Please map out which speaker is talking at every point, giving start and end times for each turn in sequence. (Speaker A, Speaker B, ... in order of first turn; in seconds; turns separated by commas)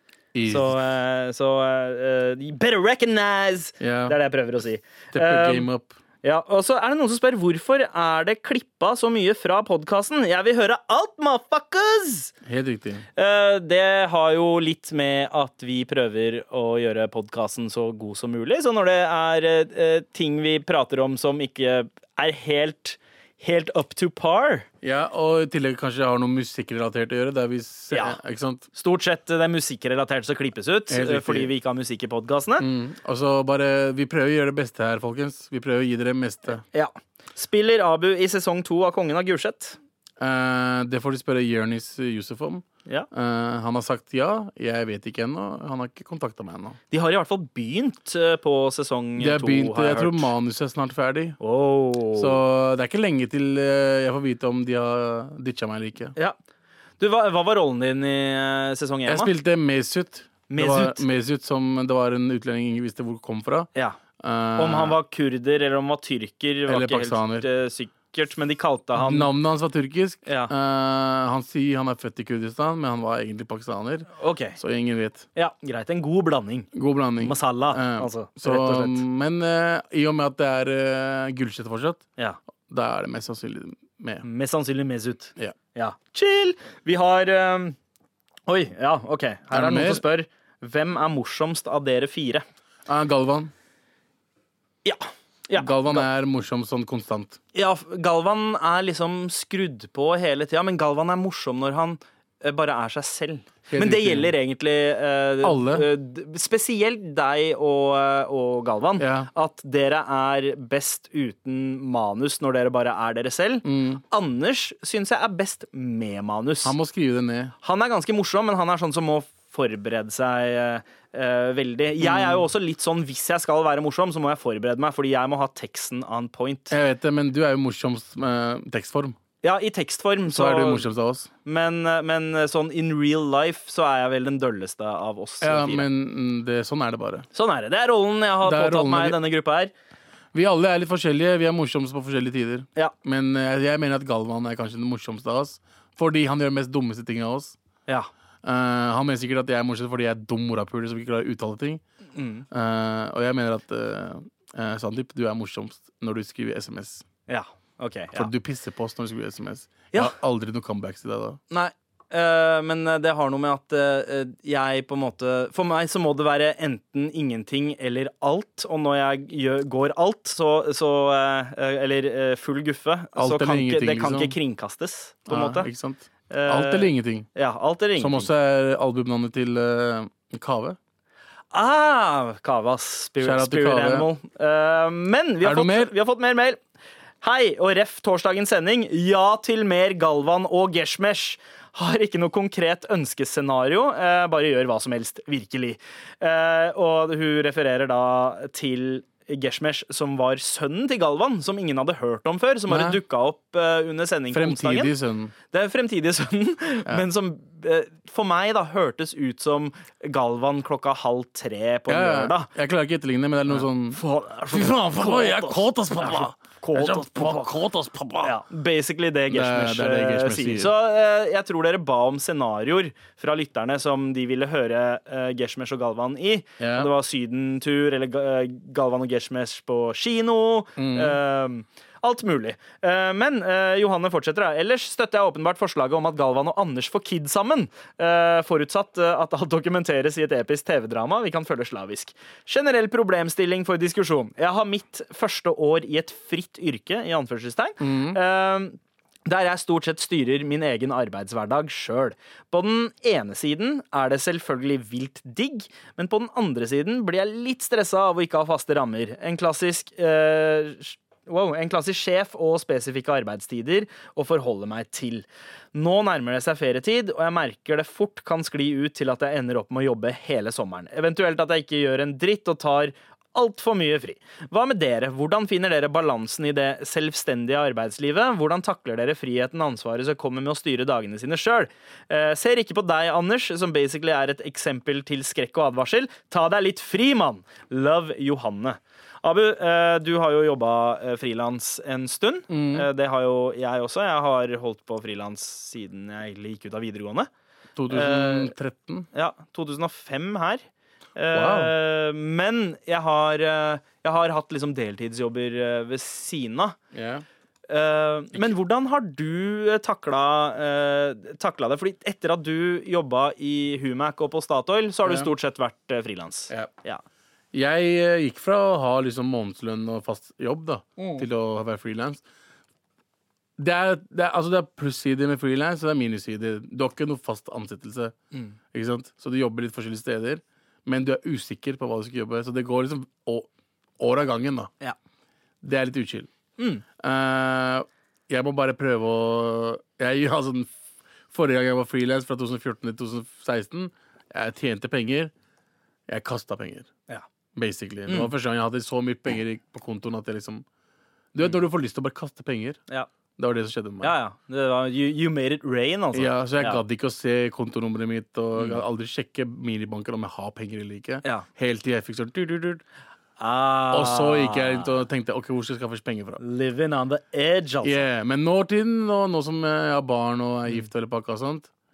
Speaker A: 0.3-0.8, Speaker B: 0.5-5.7, Speaker A: 3.8-4.2, Speaker A: 5.1-6.0, Speaker B: 6.2-12.3, Speaker A: 12.5-13.1, Speaker B: 13.2-24.7, Speaker A: 24.8-28.7, Speaker B: 27.9-28.2, Speaker B: 28.7-32.7, Speaker A: 30.9-31.5, Speaker A: 32.6-36.6, Speaker B: 36.7-39.8, Speaker A: 40.2-46.8, Speaker B: 46.9-50.3, Speaker A: 49.2-51.4, Speaker B: 51.4-52.4, Speaker A: 52.2-56.1, Speaker B: 57.0-59.3, Speaker A: 59.1-63.7, Speaker B: 60.5-61.0, Speaker A: 64.2-65.0, Speaker B: 64.6-69.3, Speaker A: 66.7-67.5, Speaker A: 69.0-75.2, Speaker B: 70.2-70.5, Speaker B: 74.2-74.6, Speaker B: 75.3-79.0, Speaker A: 76.7-82.1, Speaker A: 82.7-84.2, Speaker B: 84.2-87.8, Speaker B: 88.5-92.4, Speaker A: 89.5-90.0, Speaker A: 92.9-93.5, Speaker B: 94.8-96.1, Speaker A: 95.6-97.4, Speaker B: 97.5-116.8, Speaker A: 103.7-104.3, Speaker A: 105.4-105.9, Speaker A: 109.0-109.3, Speaker A: 113.6-114.0, Speaker A: 116.6-117.5, Speaker B: 117.6-126.8, Speaker A: 122.0-122.5, Speaker A: 126.7-129.2, Speaker B: 129.4-130.9, Speaker A: 130.3-131.3, Speaker B: 131.4-135.9, Speaker A: 135.4-137.3, Speaker B: 137.3-139.7, Speaker A: 138.4-139.2, Speaker A: 140.3-147.6, Speaker A: 148.4-151.8, Speaker B: 152.2-152.5, Speaker A: 152.5-157.0, Speaker B: 157.3-158.3, Speaker A: 158.1-161.4, Speaker B: 161.5-175.7, Speaker A: 173.2-174.4, Speaker A: 175.3-177.3, Speaker B: 176.3-178.3, Speaker A: 178.0-180.8, Speaker B: 181.5-186.6, Speaker A: 183.2-184.1, Speaker A: 185.4-185.9, Speaker B: 187.2-204.9, Speaker A: 202.7-203.0, Speaker A: 204.3-205.3, Speaker B: 205.5-212.5, Speaker A: 211.9-214.0, Speaker B: 213.5-217.5, Speaker A: 214.5-218.4, Speaker B: 218.2-297.3, Speaker A: 219.3-220.7, Speaker A: 226.6-226.9, Speaker A: 230.8-231.2, Speaker A: 247.8-248.2, Speaker A: 292.5-292.9, Speaker A: 297.8-299.1, Speaker B: 297.9-298.5, Speaker B: 299.1-300.6, Speaker B: 301.2-306.8, Speaker A: 301.3-301.7, Speaker A: 306.9-307.2, Speaker B: 307.7-317.0, Speaker A: 315.1-315.3, Speaker A: 317.5-322.2, Speaker B: 321.0-321.2, Speaker A: 323.6-328.1, Speaker A: 328.7-334.7, Speaker A: 335.6-336.3, Speaker B: 336.6-336.8, Speaker A: 337.0-340.7, Speaker A: 341.3-345.3, Speaker A: 346.1-346.9, Speaker A: 347.6-350.6, Speaker B: 348.1-348.3, Speaker A: 351.3-352.8, Speaker A: 353.4-354.2, Speaker B: 354.0-356.8, Speaker A: 356.1-362.8, Speaker B: 363.4-365.0, Speaker A: 363.9-366.4, Speaker B: 366.4-368.0, Speaker A: 367.8-371.7